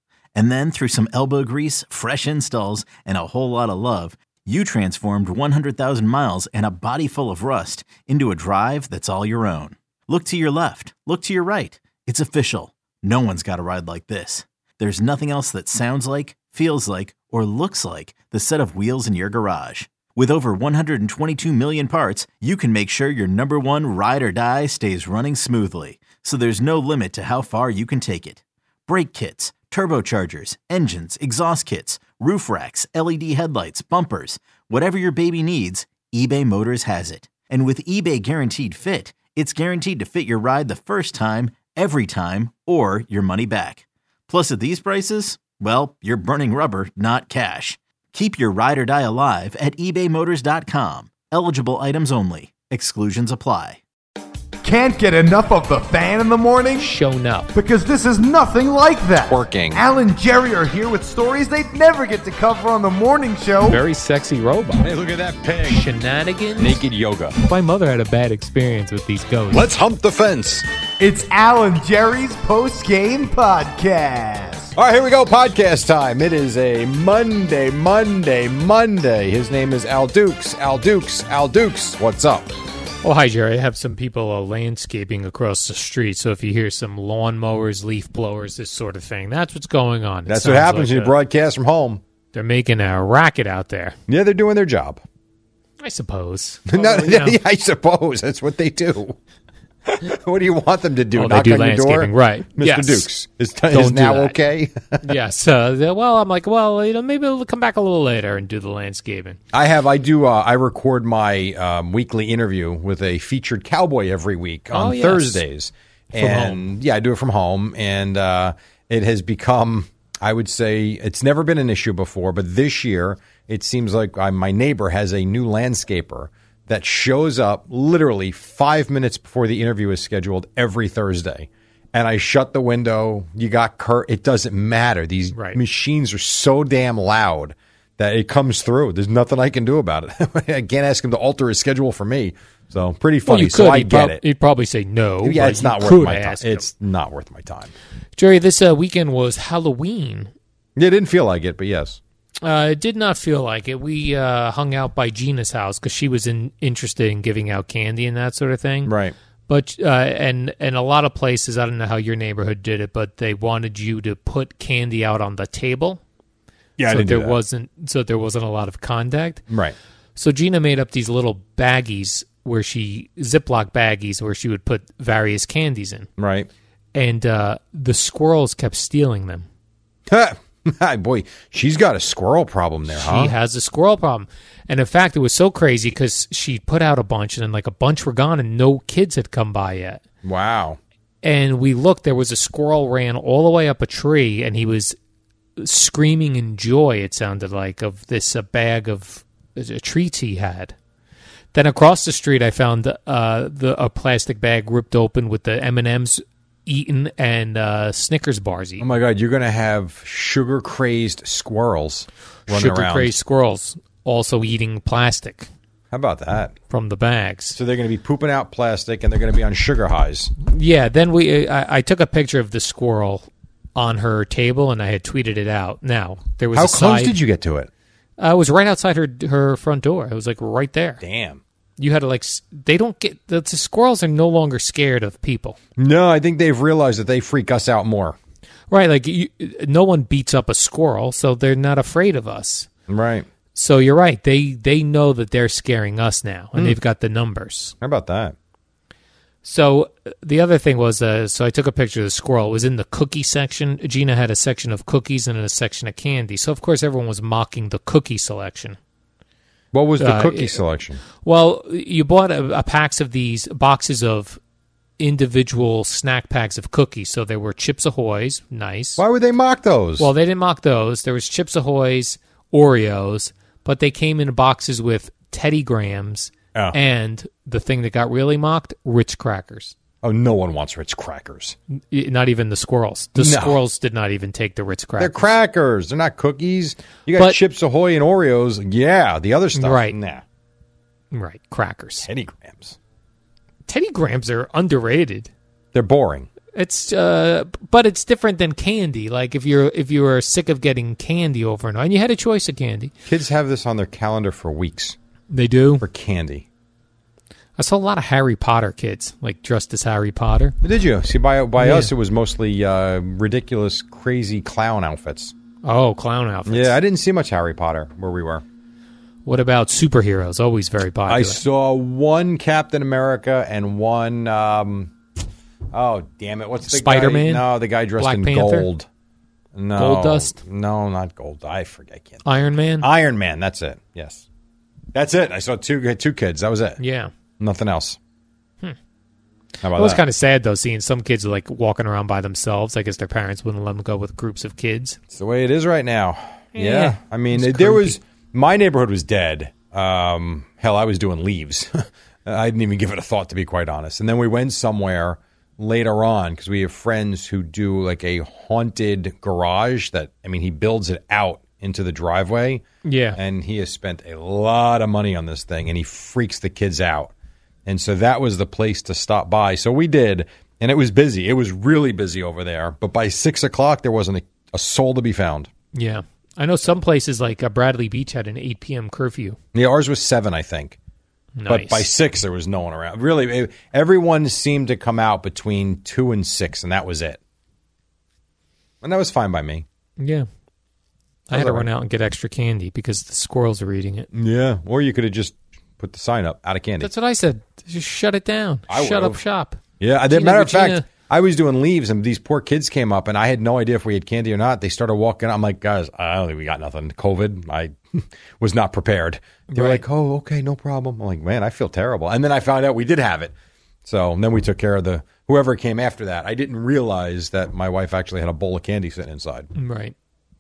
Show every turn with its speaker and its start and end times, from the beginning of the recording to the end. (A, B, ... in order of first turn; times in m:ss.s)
0:00.3-0:53.8 A
0:54.6-0:56.9 B
0:56.8-0:57.5 C
0:57.6-1:03.8 B
0:59.2-0:59.8 D
1:03.6-1:04.9 C
1:04.8-1:05.9 D
1:05.7-1:06.8 C
1:06.6-1:07.4 D
1:07.4-1:09.7 C
1:09.5-1:10.7 D
1:11.0-1:14.7 B
1:14.8-1:22.5 D
1:23.0-1:31.1 C
1:30.3-1:32.0 D
1:32.3-1:34.0 C
1:34.1-1:35.0 D
1:35.8-1:37.4 C
1:36.7-1:39.2 D
1:39.8-1:45.1 D
1:41.1-1:43.0 C
1:43.7-1:44.4 C
1:45.0-1:49.4 C
1:49.5-2:24.2 D
1:54.7-1:55.4 C
1:56.1-1:56.6 C
2:15.3-2:15.6 C
2:23.3-2:26.7 C
2:25.2-2:27.7 D
2:28.2-2:30.3 C
2:30.8-2:32.0 D
2:32.4-2:38.9 C
2:38.8-2:39.1 D
2:39.5-2:46.0 C
2:46.8-2:47.4 D
2:46.8-2:49.4 C
2:49.5-2:49.8 D
2:50.2-2:56.1 C
2:56.2-2:56.5 D
2:56.9-2:59.5 C
3:00.1-3:03.4 D
3:02.9-3:10.0 C
3:10.2-3:10.8 D
3:11.2-3:15.0 C
3:15.6-3:20.8 C
3:21.5-3:28.9 C
3:28.8-3:33.2 D
3:32.5-3:35.5 C
3:35.9-3:36.6 D
3:36.7-3:37.6 C
3:37.6-3:40.4 D
3:40.4-3:47.2 C
3:46.5-3:47.7 D
3:48.2-3:51.0 C
3:51.0-3:51.4 D
3:51.8-3:55.6 C
3:55.8-3:58.2 D
3:58.7-4:02.7 C
4:02.9-4:03.3 D
4:03.6-4:07.7 C
4:07.8-4:08.4 D
4:09.4-4:18.8 C
4:19.7-4:21.0 D
4:20.0-4:20.6 C
4:21.2-4:24.4 C
4:25.0-4:29.0 C
4:29.0-4:30.1 D
4:30.0-4:39.8 C
4:40.0-4:41.6 D
4:41.9-4:45.3 C
4:43.2-4:43.6 D
4:45.0-4:50.2 D
4:47.1-4:47.4 C
4:49.6-4:50.0 C
4:51.1-4:52.1 C
4:52.0-4:52.8 D
4:53.7-4:55.3 C
4:55.7-4:56.3 D
4:56.5-5:02.9 C
5:03.1-5:05.0 D
5:05.3-5:05.8 C
5:05.8-5:06.5 D
5:07.6-5:10.6 C
5:10.6-5:15.3 D
5:11.6-5:11.9 C
5:15.6-5:16.8 C
5:16.5-5:18.4 D
5:19.2-5:21.4 C
5:21.1-5:24.9 D
5:25.7-5:28.9 D
5:26.7-5:28.7 C
5:29.5-5:32.2 D
5:29.8-5:30.4 C
5:32.2-5:32.9 C
5:32.8-5:34.2 D
5:34.9-5:36.8 D
5:36.8-5:37.1 C
5:37.4-5:38.0 D
5:39.6-5:40.0 D
5:39.7-5:45.0 C
5:45.1-6:07.1 D
5:46.6-5:48.0 C
6:02.8-6:03.2 C
6:07.7-6:15.5 D
6:15.7-6:19.4 C
6:19.5-6:20.8 D
6:21.4-6:21.9 C
6:21.5-6:27.2 D
6:28.8-6:29.7 D
6:30.0-6:30.3 C
6:31.3-6:34.1 C
6:31.3-6:31.7 D
6:34.1-6:36.9 D
6:36.8-6:40.9 C
6:38.7-6:39.2 D
6:39.8-6:59.5 D
6:49.5-6:49.8 C
6:59.6-6:59.9 C